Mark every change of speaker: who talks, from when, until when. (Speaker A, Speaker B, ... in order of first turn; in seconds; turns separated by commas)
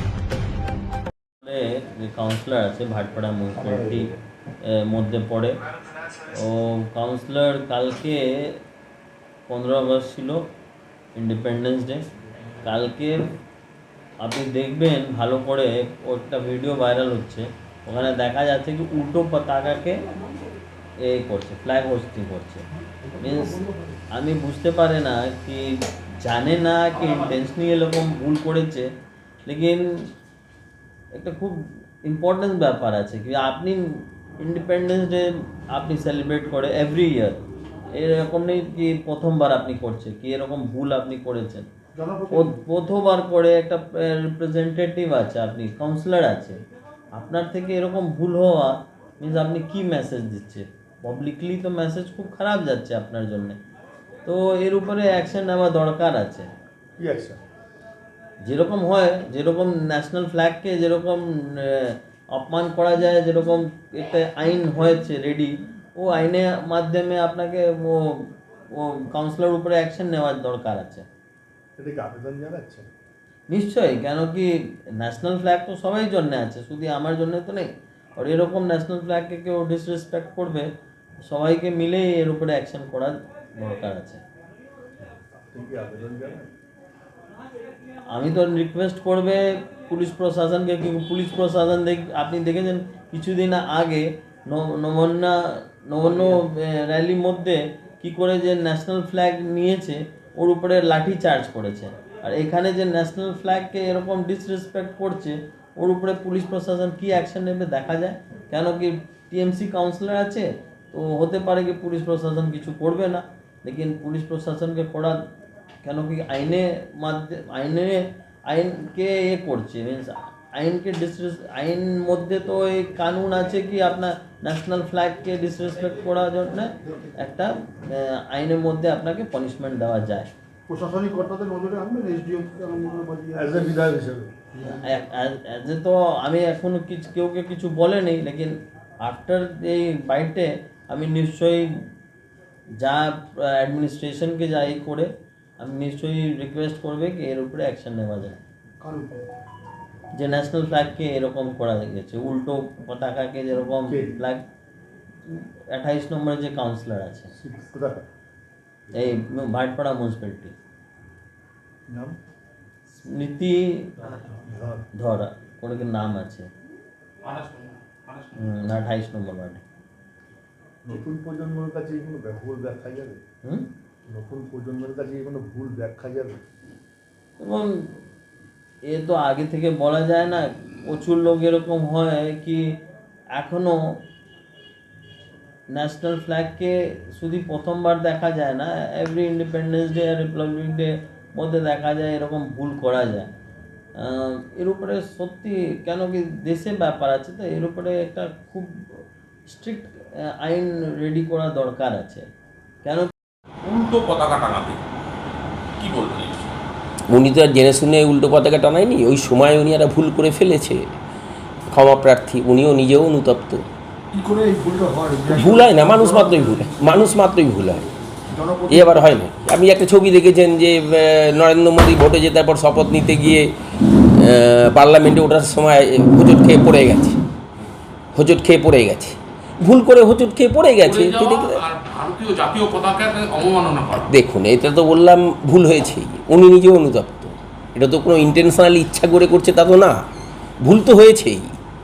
Speaker A: 1.4-4.1, Speaker A: 4.6-5.6, Speaker A: 6.2-8.6, Speaker A: 9.5-10.4, Speaker A: 11.2-12.0, Speaker A: 12.6-13.2, Speaker A: 14.2-20.0, Speaker A: 21.0-22.6, Speaker A: 23.2-23.6, Speaker A: 24.1-25.7, Speaker A: 26.2-28.9, Speaker A: 29.4-29.8, Speaker A: 31.1-33.8, Speaker A: 34.4-37.4, Speaker A: 37.9-41.7, Speaker B: 41.9-42.5, Speaker A: 42.3-46.6, Speaker A: 47.2-53.6, Speaker A: 54.2-56.5, Speaker C: 57.0-57.4, Speaker A: 58.4-68.2, Speaker A: 68.8-71.1, Speaker C: 71.8-72.9, Speaker A: 73.5-80.7, Speaker A: 81.2-84.2, Speaker C: 85.0-86.5, Speaker A: 88.1-115.2, Speaker A: 115.8-130.3, Speaker B: 130.7-134.0, Speaker C: 133.3-134.3, Speaker A: 134.6-141.7, Speaker A: 142.8-145.1, Speaker A: 145.6-148.4, Speaker B: 148.8-149.3, Speaker A: 150.2-154.4, Speaker C: 153.9-154.2, Speaker A: 155.3-157.3, Speaker C: 157.3-158.1, Speaker A: 158.9-160.5, Speaker C: 161.9-162.2, Speaker A: 162.9-164.2, Speaker C: 164.4-164.8, Speaker A: 165.0-166.5, Speaker D: 167.2-168.4, Speaker A: 168.3-169.6, Speaker C: 170.8-173.2, Speaker C: 174.1-176.4, Speaker A: 177.4-178.0, Speaker A: 178.9-182.8, Speaker A: 183.3-184.0, Speaker A: 185.7-193.3, Speaker A: 194.0-198.7, Speaker A: 199.5-202.2, Speaker A: 202.8-203.1, Speaker D: 203.6-204.8, Speaker D: 205.8-206.5, Speaker E: 207.1-210.8, Speaker E: 211.7-213.7, Speaker B: 214.1-216.9, Speaker E: 215.3-217.8, Speaker B: 218.3-219.1, Speaker E: 218.7-223.5, Speaker E: 224.1-227.2, Speaker E: 228.1-231.6, Speaker D: 230.8-234.1, Speaker E: 233.9-240.0, Speaker E: 240.6-241.6